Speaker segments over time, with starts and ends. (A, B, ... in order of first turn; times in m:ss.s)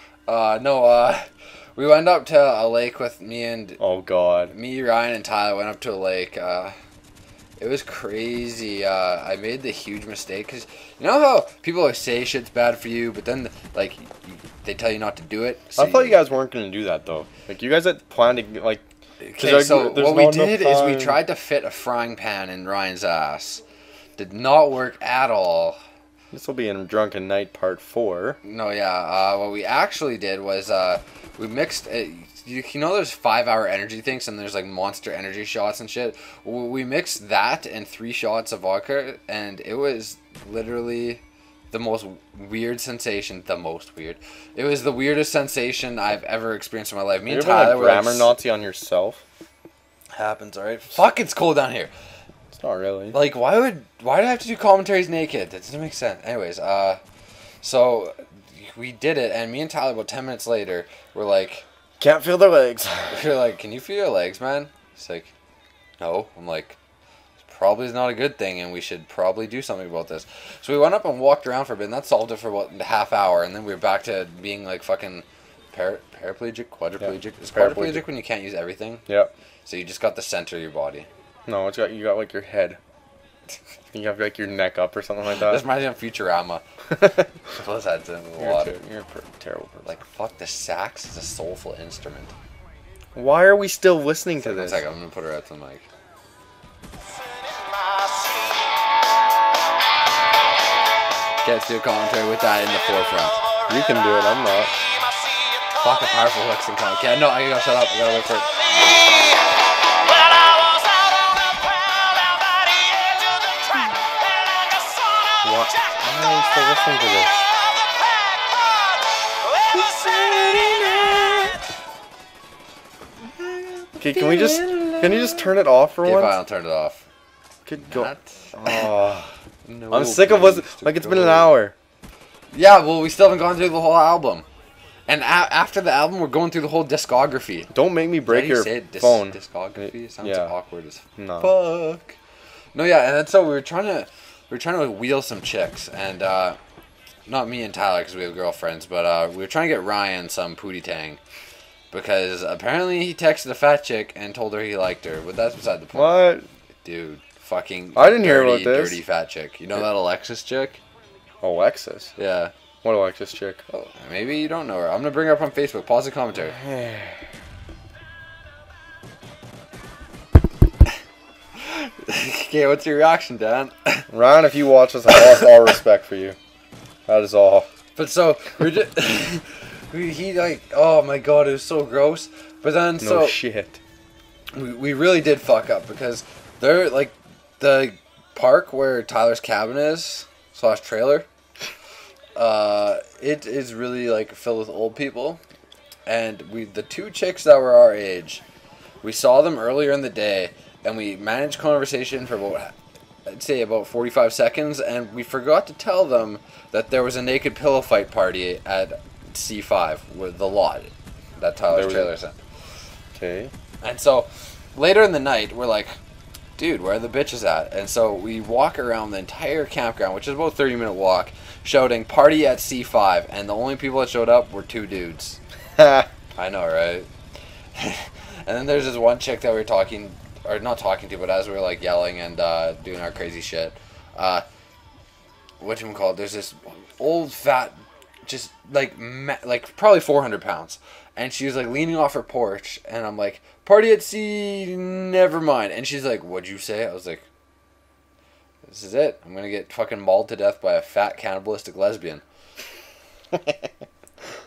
0:00.3-0:03.8 A
0:03.8-0:04.5 B
0:04.5-0:06.7 A
0:07.6-0:16.2 A
0:15.8-0:18.8 B
0:19.2-0:23.6 A
0:19.4-0:21.2 B
0:24.2-0:25.8 A
0:26.3-0:28.4 B
0:28.4-0:48.3 A
0:47.3-0:49.2 B
0:50.2-0:51.9 A
0:52.5-0:53.2 B
0:53.1-0:57.0 A
0:57.6-1:01.6 A
1:02.0-1:03.2 B
1:03.1-1:05.3 A
1:06.0-1:06.8 A
1:07.4-1:19.0 A
1:17.0-1:18.1 B
1:19.6-1:21.1 A
1:21.5-1:22.8 B
1:23.9-1:25.6 B
1:25.3-1:26.6 A
1:26.9-1:27.3 B
1:27.5-1:28.8 A
1:28.4-1:29.9 B
1:29.8-1:32.3 A
1:33.2-1:34.8 B
1:34.4-1:35.8 A
1:41.4-1:43.4 A
1:43.7-1:44.7 B
1:45.8-1:48.7 A
1:55.4-1:57.5 B
1:59.7-2:01.6 A
2:03.2-2:07.0 A
2:04.0-2:06.4 B
2:07.7-2:09.3 B
2:07.8-2:08.9 A
2:09.6-2:11.6 A
2:09.9-2:11.7 B
2:12.5-2:14.4 A
2:15.1-2:17.7 A
2:17.7-2:20.5 B
2:18.3-2:22.2 A
2:21.2-2:21.5 B
2:22.7-2:26.6 A
2:27.3-2:31.2 A
2:31.9-2:36.2 A
2:35.9-2:36.5 B
2:36.8-2:40.8 A
2:38.0-2:39.0 B
2:41.4-2:42.1 B
2:42.2-2:42.5 A
2:42.8-2:43.6 B
2:43.7-2:46.6 A
2:46.4-2:47.2 B
2:51.6-2:54.0 A
2:54.1-2:56.4 B
2:55.1-2:55.5 A
2:57.1-2:57.7 B
2:58.0-3:03.4 A
3:03.0-3:03.8 B
3:04.5-3:11.3 A
3:12.4-3:15.4 A
3:16.0-3:18.4 A
3:19.0-3:22.7 A
3:23.3-3:32.4 A
3:31.7-3:32.1 B
3:33.2-3:33.5 B
3:33.8-3:36.0 A
3:36.6-3:45.4 A
3:45.8-3:46.1 B
3:46.4-3:47.1 A
3:47.7-3:54.4 A
3:55.6-4:07.3 A
4:08.7-4:12.2 A